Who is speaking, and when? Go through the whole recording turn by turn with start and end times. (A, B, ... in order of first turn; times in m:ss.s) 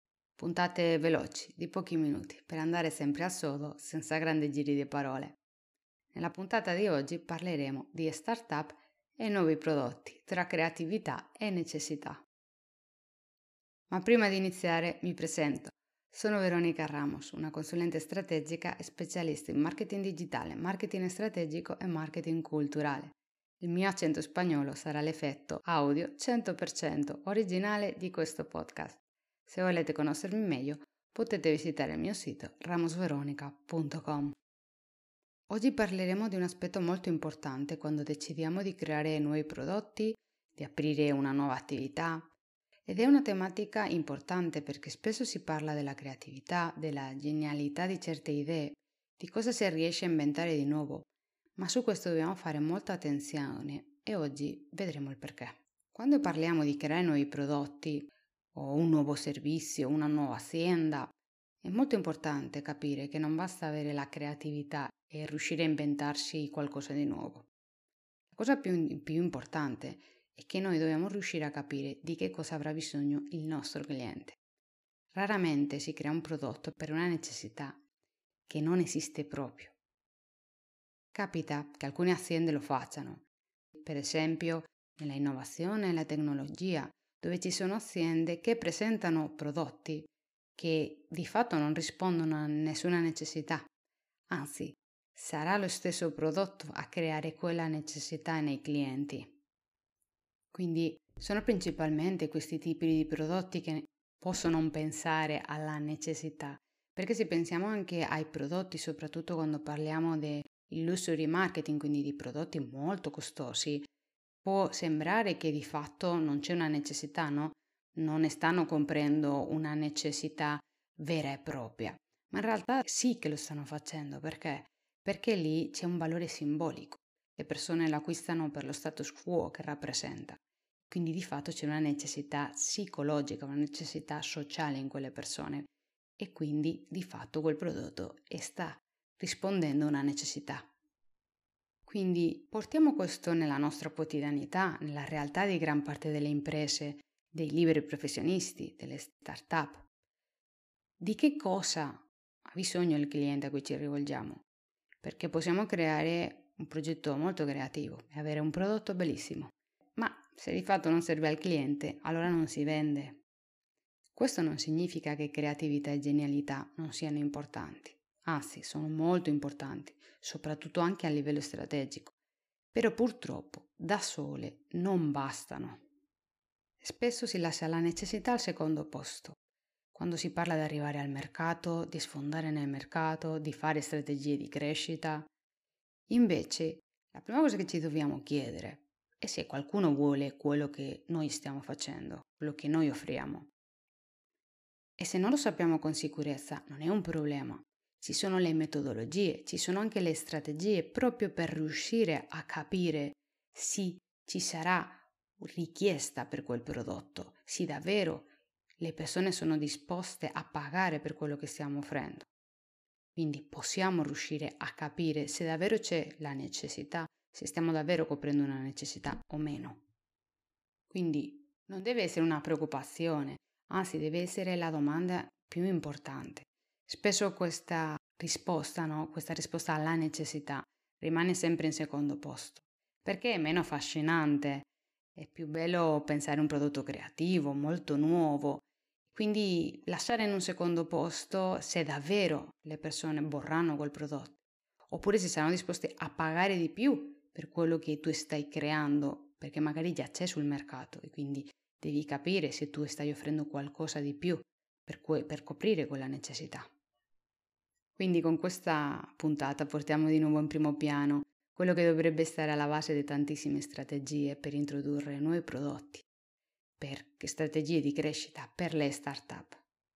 0:00.4-0:05.4 A
0:06.1-0:12.2 A
0:13.9-0:34.4 A
0:35.5-0:42.3 A
0:42.9-1:07.5 A
1:08.3-1:14.4 A
1:15.1-1:17.8 A
1:18.5-1:19.7 A
1:21.1-1:23.2 A
1:23.8-1:33.7 A
1:34.3-1:39.4 A
1:40.5-1:53.9 A
1:54.4-2:20.7 A
2:21.9-2:29.9 A
2:31.0-2:34.4 A
2:35.0-2:43.2 A
2:44.1-2:52.2 A
2:52.7-2:55.8 A
2:56.8-2:59.4 A
2:59.9-3:05.3 A
3:06.1-3:13.5 A
3:15.0-3:28.3 A
3:28.8-3:32.3 A
3:33.2-3:39.8 A
3:40.9-4:04.4 A
4:04.9-4:16.7 A
4:18.0-4:26.0 A
4:26.8-4:29.6 A